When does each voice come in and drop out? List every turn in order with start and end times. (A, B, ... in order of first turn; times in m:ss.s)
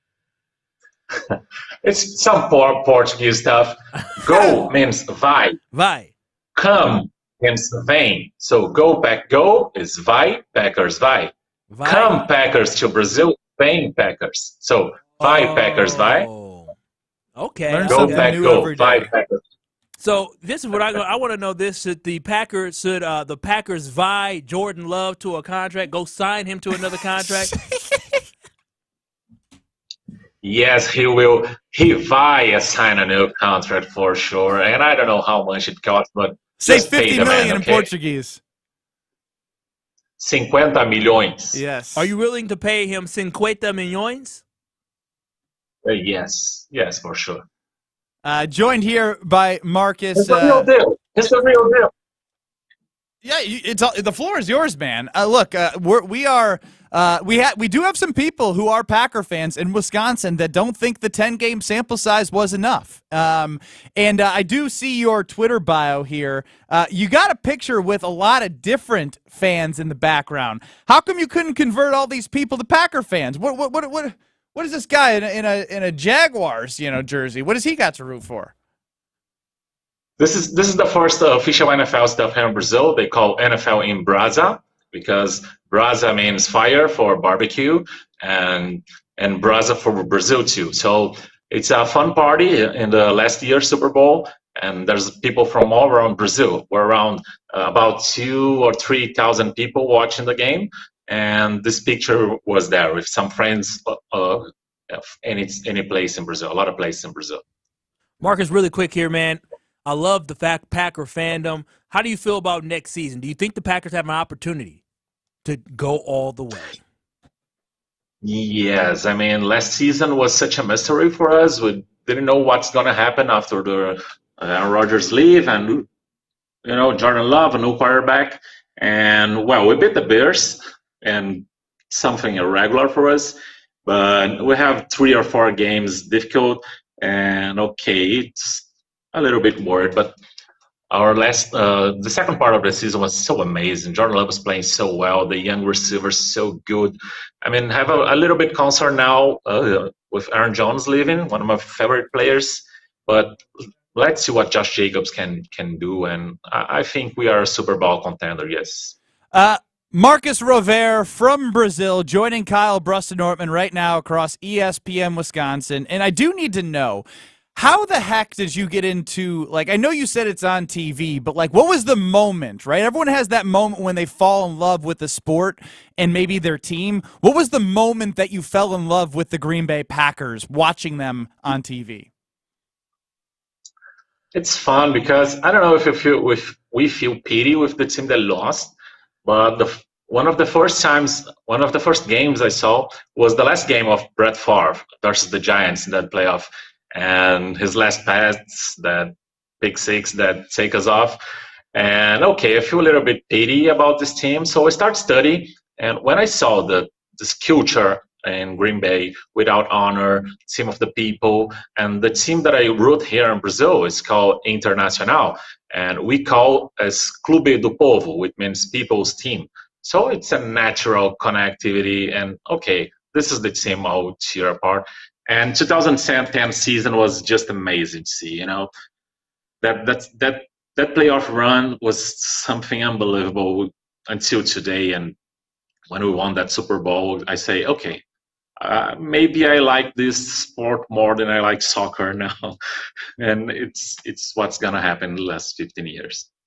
0:01.8-0:05.6 A
0:05.7-0:06.1 B
0:06.6-0:11.3 A
0:11.7-0:12.2 B
0:11.8-0:16.3 A
0:15.2-0:16.7 B
0:17.4-0:18.4 B
0:17.7-0:19.1 C
0:17.9-0:19.4 A
0:20.0-0:27.5 B
0:30.4-0:37.9 A
0:36.6-0:38.4 C
0:40.2-0:41.6 A
0:41.5-0:42.1 C
0:42.0-0:44.4 B
0:45.8-0:47.4 A
0:48.2-0:50.7 C
0:50.2-0:51.9 A
0:53.2-1:18.5 C
1:20.2-1:47.4 A
1:48.2-1:54.8 B
1:55.4-1:56.8 B
1:58.2-2:05.9 A
2:06.6-2:20.1 A
2:20.9-2:33.4 A
2:33.9-2:38.9 A
2:39.3-3:02.1 C
3:04.3-3:08.7 A
3:09.2-3:21.2 A
3:21.7-3:48.7 A
3:49.6-3:55.1 A
3:55.9-3:58.0 A
3:58.6-4:02.6 A
4:03.2-4:06.2 A